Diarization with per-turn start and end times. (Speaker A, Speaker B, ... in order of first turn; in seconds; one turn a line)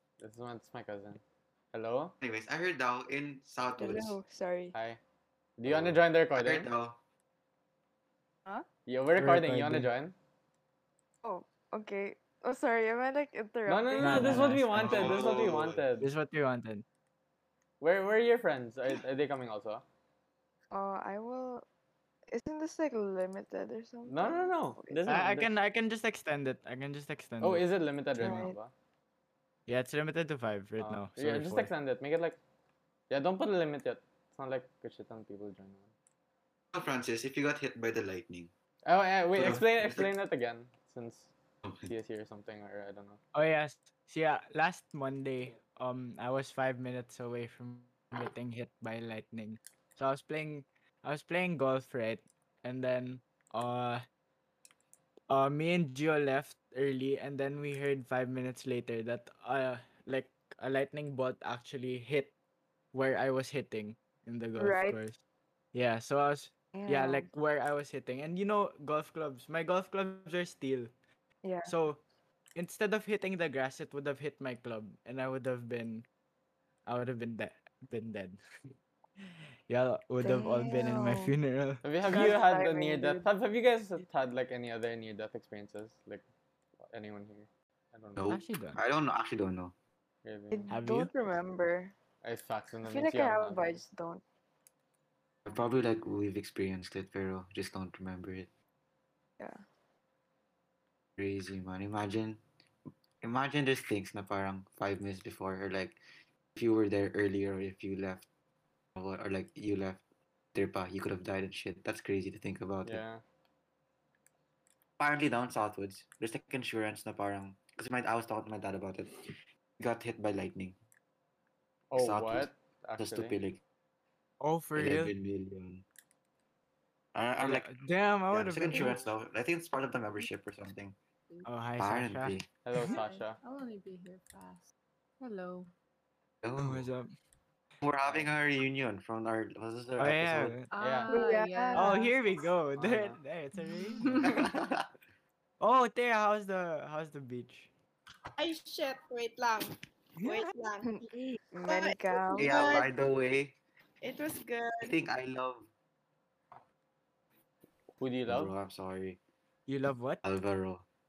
Speaker A: 0.2-1.2
Speaker A: 1.7-2.1
Speaker B: 2.2-4.2
Speaker C: 3.8-4.7
Speaker A: 4.7-5.0
Speaker A: 5.6-6.7
Speaker B: 5.6-7.0
Speaker A: 8.8-10.1
Speaker D: 9.2-9.9
Speaker C: 11.2-14.5
Speaker A: 13.7-16.1
Speaker D: 14.0-16.8
Speaker B: 14.7-15.8
Speaker A: 17.8-19.8
Speaker C: 20.7-21.6
Speaker C: 22.3-25.1
Speaker A: 24.1-25.5
Speaker D: 25.1-27.6
Speaker A: 27.4-28.7
Speaker C: 28.2-28.6
Speaker D: 28.2-28.5
Speaker D: 29.7-31.7
Speaker A: 30.8-32.4
Speaker A: 33.1-35.9
Speaker B: 36.7-38.5
Speaker A: 38.9-41.3
Speaker B: 39.3-40.1
Speaker B: 41.6-41.9
Speaker A: 41.9-43.2
Speaker D: 43.3-54.0
Speaker D: 55.3-62.3
Speaker D: 62.9-65.2
Speaker C: 64.6-65.0
Speaker D: 65.7-70.9
Speaker C: 66.7-67.3
Speaker C: 71.4-71.7
Speaker D: 71.6-72.0
Speaker D: 72.5-76.0
Speaker D: 76.8-78.4
Speaker D: 79.2-81.8
Speaker C: 80.2-81.3
Speaker A: 81.8-86.2
Speaker C: 82.0-83.3
Speaker A: 86.8-88.3
Speaker B: 88.2-89.7
Speaker D: 88.3-88.8
Speaker A: 90.2-90.7
Speaker C: 90.5-91.9
Speaker D: 90.7-91.1
Speaker A: 92.2-93.8
Speaker C: 92.8-94.2
Speaker B: 95.4-98.5
Speaker B: 101.2-102.4
Speaker B: 103.2-106.0
Speaker B: 106.5-108.2
Speaker B: 109.0-110.0
Speaker B: 110.5-113.0
Speaker A: 112.8-113.2
Speaker B: 115.0-119.2
Speaker B: 119.8-120.8
Speaker A: 121.9-123.3
Speaker B: 122.0-123.6
Speaker D: 124.4-125.1
Speaker B: 124.7-125.8
Speaker B: 127.1-127.8
Speaker D: 127.4-129.1
Speaker B: 128.3-130.9
Speaker D: 131.4-132.9
Speaker B: 131.8-132.5
Speaker A: 132.6-133.4
Speaker E: 132.8-134.7
Speaker E: 135.2-135.7
Speaker B: 136.4-136.9
Speaker D: 136.6-137.1
Speaker B: 137.8-140.6
Speaker A: 138.0-138.3
Speaker D: 140.0-140.7
Speaker E: 140.7-142.5
Speaker A: 140.8-141.2
Speaker C: 141.1-141.9
Speaker D: 141.7-144.3
Speaker A: 142.7-143.2
Speaker E: 143.8-144.5
Speaker B: 144.2-144.9
Speaker D: 145.6-147.7
Speaker F: 148.4-151.1
Speaker D: 150.2-150.5
Speaker C: 150.8-152.8
Speaker F: 151.7-152.9
Speaker B: 152.4-153.6
Speaker F: 154.0-154.9
Speaker B: 154.8-155.7
Speaker A: 158.0-158.5
Speaker B: 158.3-159.2
Speaker D: 159.7-160.2
Speaker B: 160.2-160.8